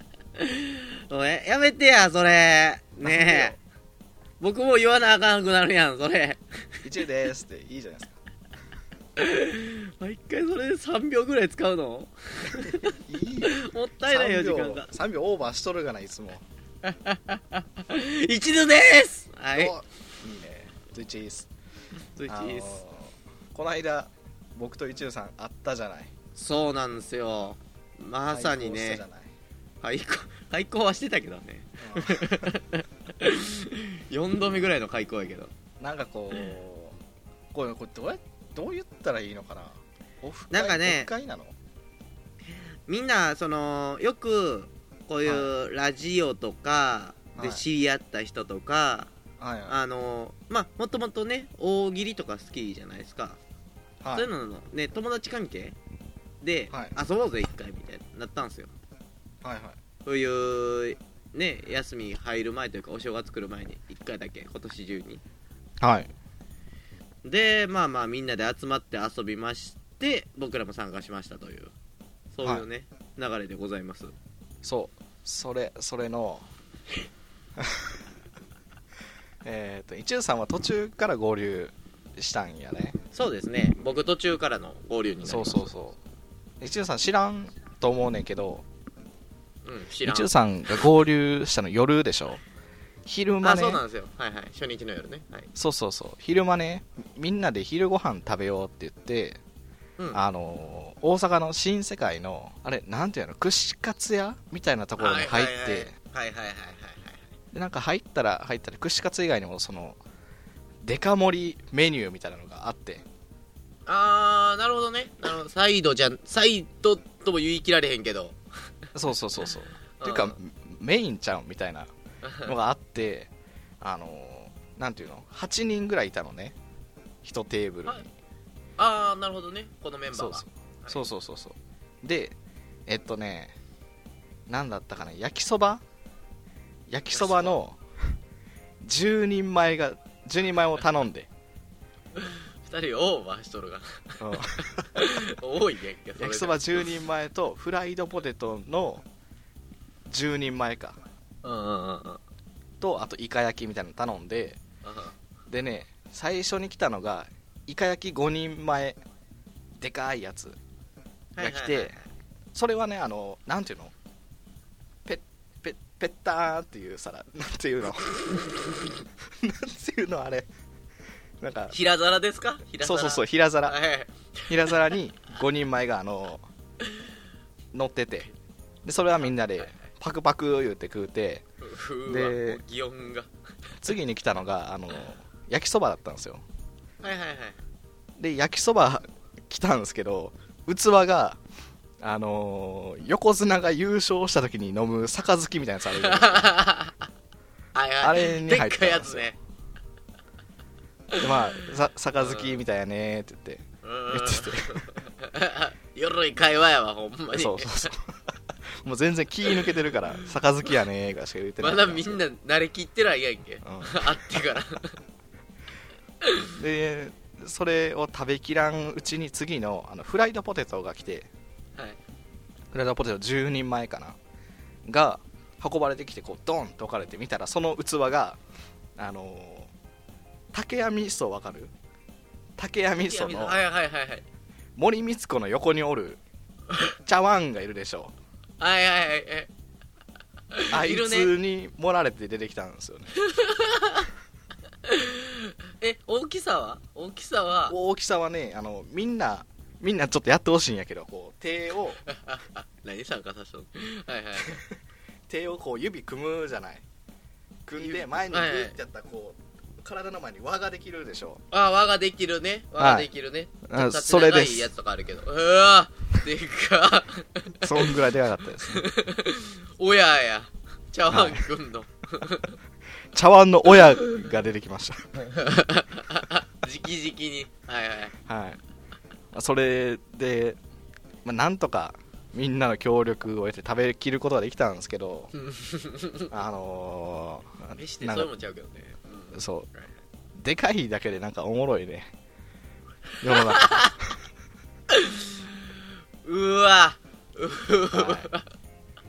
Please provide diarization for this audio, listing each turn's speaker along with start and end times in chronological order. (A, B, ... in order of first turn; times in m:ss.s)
0:00.4-0:03.6 A
0:03.0-0:03.6 B
0:04.4-0:06.4 A
0:06.8-0:08.2 B
0:09.2-0:13.0 A
0:12.6-0:16.4 B
0:13.4-0:14.9 A
0:16.8-0:19.7 A
0:19.6-0:21.5 B
0:22.2-0:22.8 A
0:22.3-0:26.1 B
0:26.4-0:29.0 A
0:28.3-0:29.3 B
0:29.8-0:35.5 A
0:31.8-0:32.5 B
0:35.8-0:37.0 B
0:37.5-0:41.6 B
0:40.5-0:41.1 A
0:42.9-0:49.1 A
0:47.4-0:47.6 B
0:49.4-0:49.8 B
0:49.7-0:53.4 A
0:54.0-0:54.3 B
0:54.1-0:55.8 A
0:56.4-0:58.7 A
0:56.7-0:56.9 B
0:59.4-0:59.8 B
1:00.1-1:05.2 A
1:05.8-1:06.1 B
1:07.2-1:11.7 A
1:12.3-1:14.1 A
1:14.6-1:16.4 B
1:17.6-1:17.9 B
1:19.4-1:23.0 B
1:23.1-1:25.7 A
1:25.2-1:26.0 B
1:26.6-1:28.6 B
1:29.6-1:30.3 A
1:30.1-1:32.4 B
1:33.1-1:33.8 B
1:33.4-1:35.5 A
1:35.6-1:39.4 B
1:40.1-1:45.9 B
1:45.0-1:47.3 A
1:47.5-1:50.0 B
1:50.8-1:53.0 B
1:53.8-1:58.4 A
1:58.9-2:01.9 B
1:59.5-2:00.4 A
2:02.4-2:03.3 B
2:03.8-2:06.6 B
2:07.2-2:08.1 B
2:08.8-2:11.0 A
2:10.1-2:12.4 B
2:12.9-2:13.5 B
2:14.5-2:15.8 B
2:16.9-2:17.8 B
2:17.1-2:17.6 A
2:18.8-2:21.3 B
2:22.2-2:26.8 A
2:24.2-2:25.0 B
2:26.2-2:29.0 B
2:30.1-2:31.0 B
2:31.4-2:32.2 A
2:32.8-2:34.6 B
2:34.8-2:35.2 A
2:35.5-2:39.0 B
2:39.8-2:40.6 B
2:41.4-2:42.1 A
2:41.4-2:41.9 B
2:42.5-2:43.9 B
2:45.1-2:48.4 B
2:49.4-2:50.5 B
2:51.4-2:51.8 B
2:51.7-2:54.7 A
2:52.8-2:53.8 B
2:54.5-2:56.4 B
2:57.7-2:58.3 B
2:58.8-3:01.4 B
3:01.6-3:03.3 A
3:02.1-3:02.6 B
3:03.8-3:06.4 B
3:07.0-3:07.6 A
3:08.2-3:11.4 B
3:12.0-3:16.5 B
3:16.0-3:17.0 A
3:17.8-3:19.3 A
3:18.0-3:19.3 B
3:21.2-3:24.8 B
3:22.2-3:22.6 A
3:23.8-3:27.9 A
3:27.3-3:28.1 B
3:28.8-3:32.2 B
3:31.6-3:34.9 A
3:33.6-3:34.4 B
3:36.2-3:36.5 A
3:36.5-3:41.3 B
3:42.7-3:44.2 B
3:44.8-3:48.4 B
3:49.0-3:49.7 B
3:50.5-3:51.7 B
3:52.6-3:53.6 B
3:53.0-3:54.2 A
3:54.8-3:56.2 B
3:57.0-3:58.1 B
3:58.6-3:59.5 A
4:00.5-4:01.3 A
4:00.7-4:03.1 B
4:03.2-4:04.1 A
4:04.9-4:07.8 A
4:07.7-4:12.0 B
4:12.1-4:14.6 A
4:15.3-4:16.8 B
4:17.6-4:21.4 B
4:17.8-4:18.8 A
4:21.5-4:28.0 A
4:22.8-4:23.1 B
4:23.6-4:24.7 B
4:27.6-4:28.9 B
4:28.6-4:32.6 A
4:31.1-4:31.4 B
4:33.1-4:35.1 B
4:35.2-4:38.1 A
4:38.2-4:38.6 B
4:39.3-4:40.6 B
4:41.2-4:45.3 B
4:45.4-4:46.3 A
4:46.3-4:48.3 B
4:47.8-4:49.9 A
4:49.3-4:49.7 B
4:50.4-4:52.1 B
4:53.2-4:53.9 B
4:53.3-4:54.0 A
4:54.9-4:55.4 A
4:56.2-4:58.4 A
4:57.9-4:58.3 B